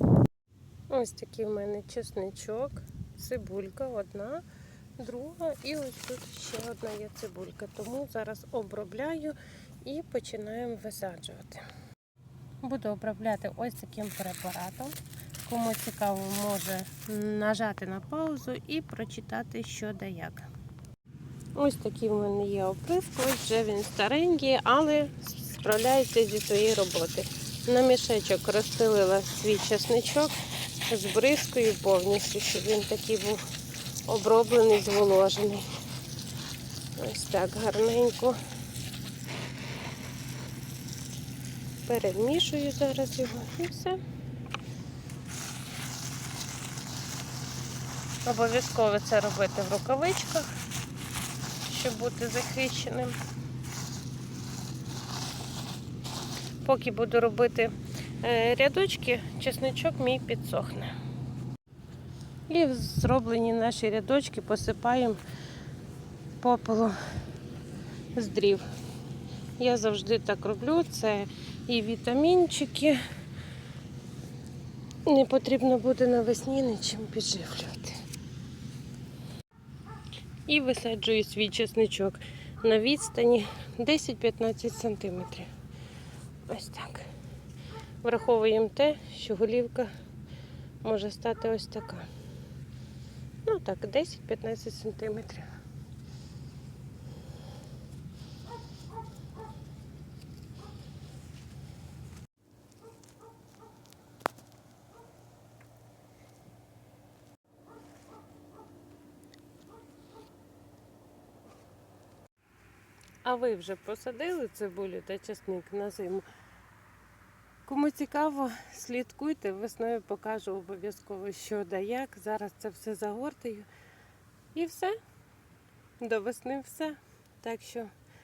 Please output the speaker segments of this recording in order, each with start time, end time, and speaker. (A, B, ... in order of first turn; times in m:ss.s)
0:00.9-0:04.4 A
0:05.0-0:11.6 A
0:12.6-0:20.5 A
0:21.5-0:30.4 A
0:30.9-0:33.5 A
0:34.0-0:35.7 A
0:37.0-0:38.4 A
0:41.8-0:44.0 A
0:48.2-0:50.5 A
0:51.6-0:53.2 A
0:56.6-1:01.0 A
1:02.5-1:05.2 A
1:06.4-1:07.0 A
1:08.1-1:08.6 A
1:09.6-1:13.0 A
1:15.0-1:18.0 A
1:20.5-1:25.5 A
1:26.5-1:27.1 A
1:28.0-1:29.9 A
1:30.8-1:32.1 A
1:33.4-1:35.5 A
1:53.2-1:56.2 A
1:57.6-2:03.7 A
2:04.5-2:05.0 A
2:06.0-2:07.9 A